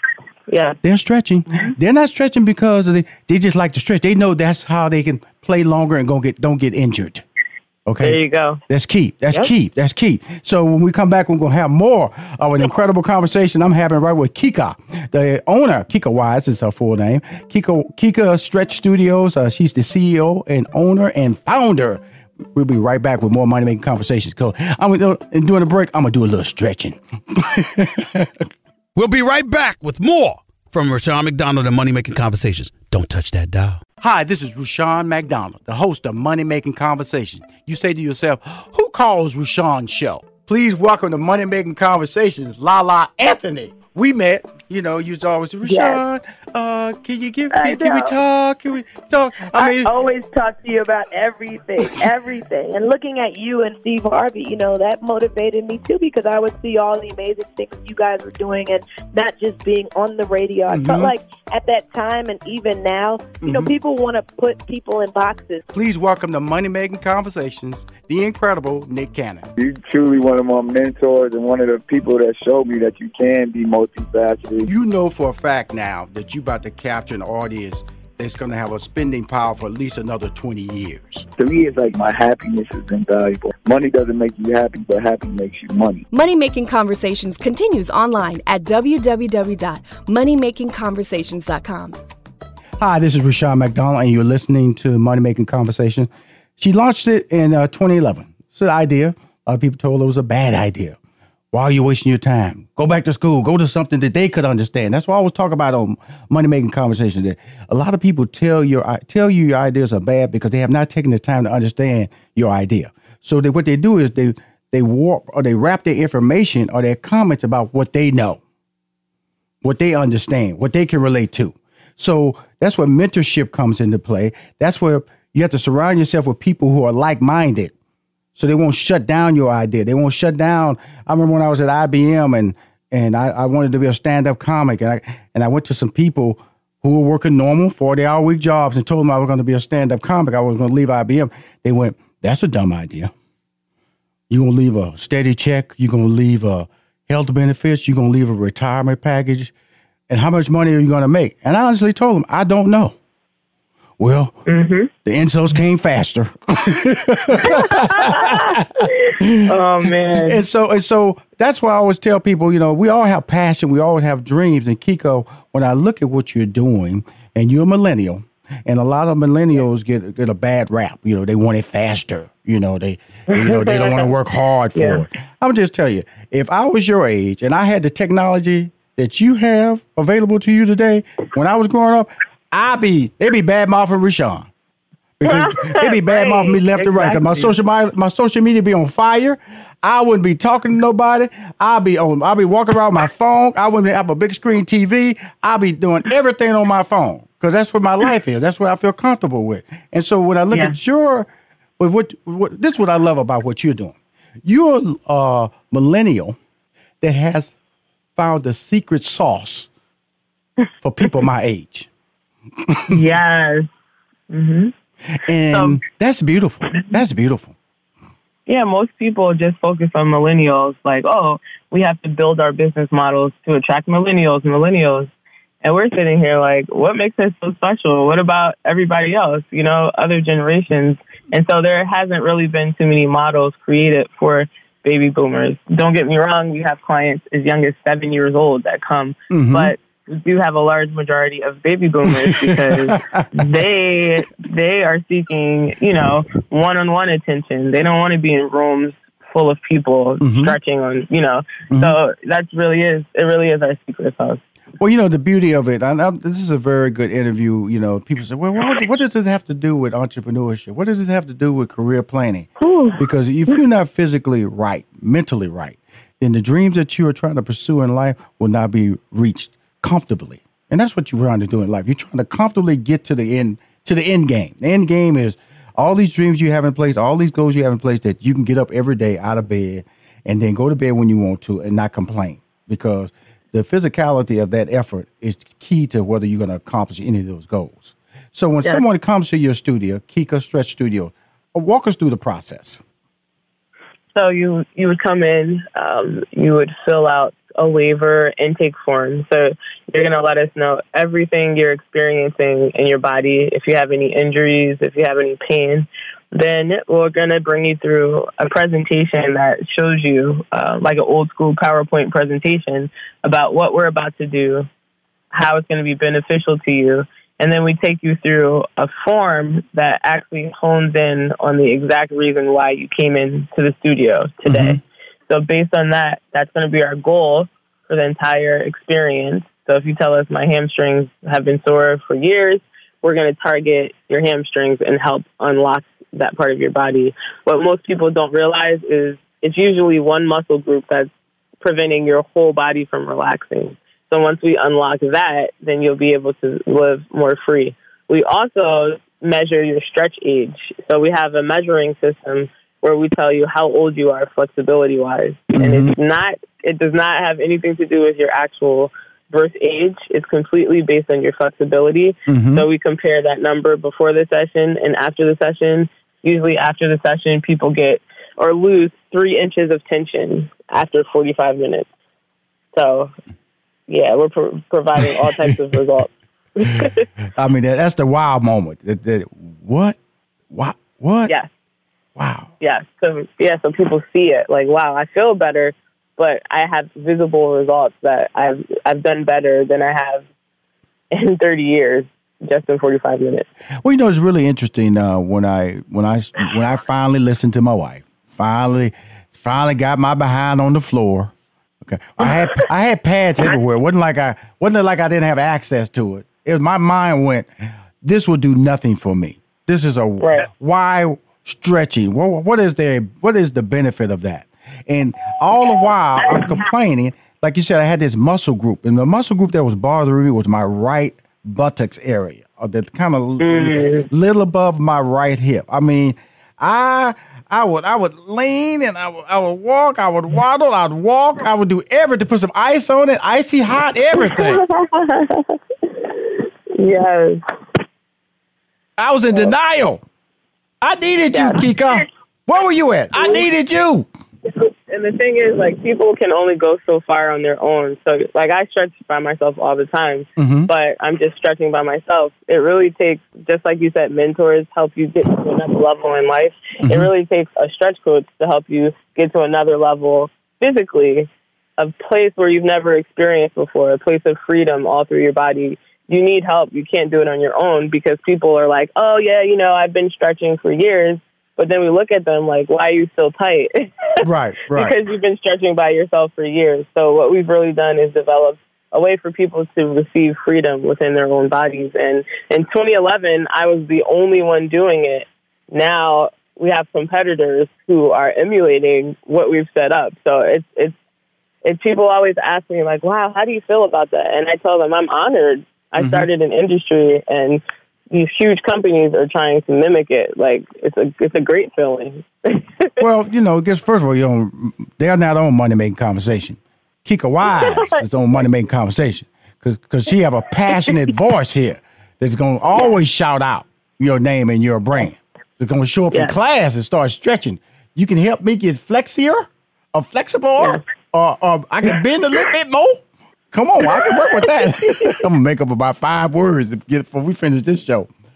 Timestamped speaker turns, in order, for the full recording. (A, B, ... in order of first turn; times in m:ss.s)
0:00.5-0:00.8 A
0:00.8-0:07.2 B
0:07.8-0:08.2 B
0:08.0-0:08.6 A
0:08.7-0:22.0 B
0:22.5-0:28.5 B
0:28.9-0:33.8 C
0:34.0-0:49.9 B
0:45.7-0:46.0 A
0:47.5-0:48.2 D
0:49.5-1:05.6 D
1:00.7-1:01.1 B
1:03.4-1:03.7 B
1:05.7-1:09.5 B
1:09.6-1:14.7 E
1:14.7-1:21.3 B
1:21.4-1:26.0 E
1:26.1-1:32.0 F
1:32.8-1:41.0 B
1:41.5-1:58.4 B
1:59.6-2:07.7 B
2:08.3-2:23.1 B
2:24.3-2:29.5 B
2:30.1-2:33.0 B
2:34.0-2:34.3 B
2:34.5-2:34.9 A
2:35.0-3:04.5 B
2:37.4-2:40.4 A
2:53.3-2:54.1 A
2:54.7-2:55.0 A
3:05.2-3:21.3 B
3:05.2-3:07.5 A
3:21.8-3:26.4 B
3:27.0-3:27.6 B
3:28.2-3:29.7 B
3:30.8-3:31.9 B
3:32.7-3:33.0 B
3:32.9-3:33.7 A
3:34.3-3:34.7 A
3:35.1-3:37.5 B
3:38.5-3:45.1 A
3:45.6-4:14.4 A
3:59.3-3:59.7 B
4:02.1-4:03.3 B
4:10.2-4:10.6 B
4:11.7-4:12.0 B
4:14.8-4:52.8 B
4:22.6-4:23.0 A
4:54.1-5:14.7 A
5:15.3-5:41.1 A
5:24.5-5:24.8 B
5:41.6-6:11.9 A
5:55.6-5:56.0 B
6:02.3-6:02.6 B
6:12.7-6:13.1 A
6:13.9-6:17.0 A
6:17.4-6:20.0 B
6:20.5-6:21.3 B
6:22.2-6:22.5 B
6:22.6-6:30.2 A
6:31.1-6:33.5 A
6:33.8-6:41.3 B
6:41.8-6:47.4 B
6:48.0-7:14.6 B
6:50.2-6:50.5 A
7:03.4-7:04.1 A
7:14.2-7:17.4 A
7:19.0-7:20.0 B
7:20.8-7:24.1 B
7:21.3-7:21.6 A
7:23.2-7:23.4 A
7:24.5-8:10.9 A
7:30.4-7:30.7 B
7:36.8-7:37.1 B
7:54.2-7:54.9 B
8:11.6-8:22.9 A
8:16.0-8:16.3 B
8:23.0-8:48.1 B
8:27.6-8:27.9 A
8:40.6-8:40.8 A
8:43.9-8:45.1 A